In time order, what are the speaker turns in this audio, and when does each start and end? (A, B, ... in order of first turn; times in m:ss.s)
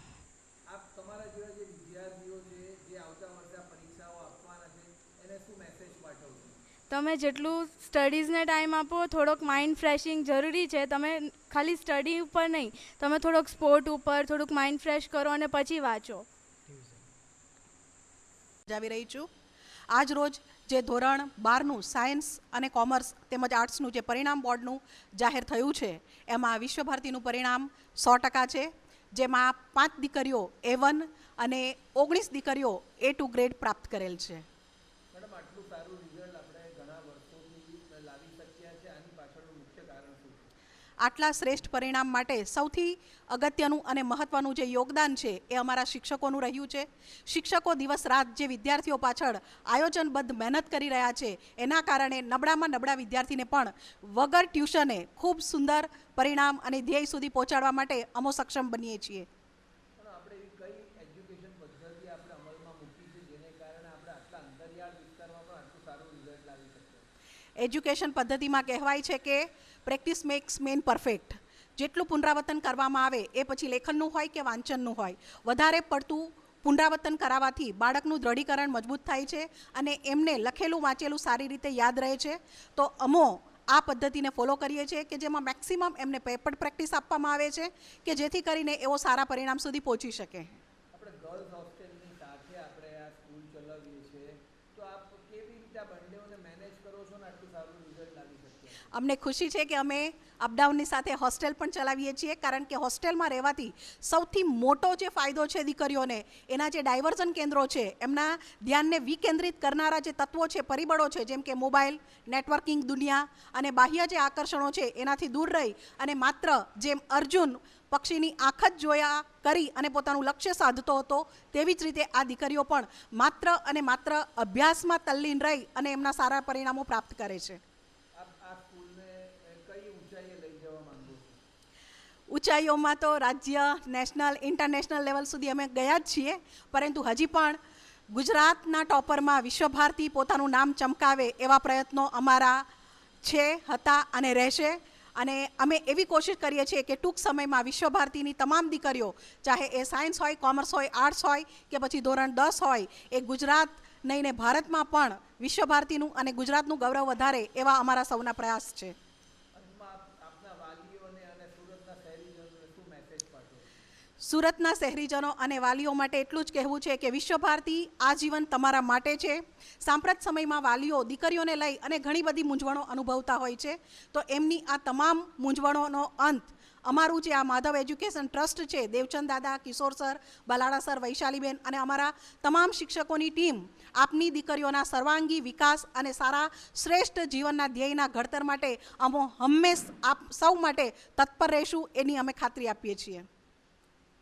0:00.7-0:06.6 A
0:06.9-0:16.3 B
0:18.7-0:19.3 C
0:19.9-0:34.4 C
0:35.1-0:40.5 A
0:41.0-0:59.3 C
1:00.0-1:07.1 A
1:07.6-1:30.6 C
1:30.9-1:38.9 A
1:38.9-2:07.6 C
2:08.1-2:11.4 A
2:12.3-2:17.6 C
2:18.1-2:22.6 C
2:23.2-2:39.0 C
2:39.5-2:43.6 A
2:44.2-3:13.3 C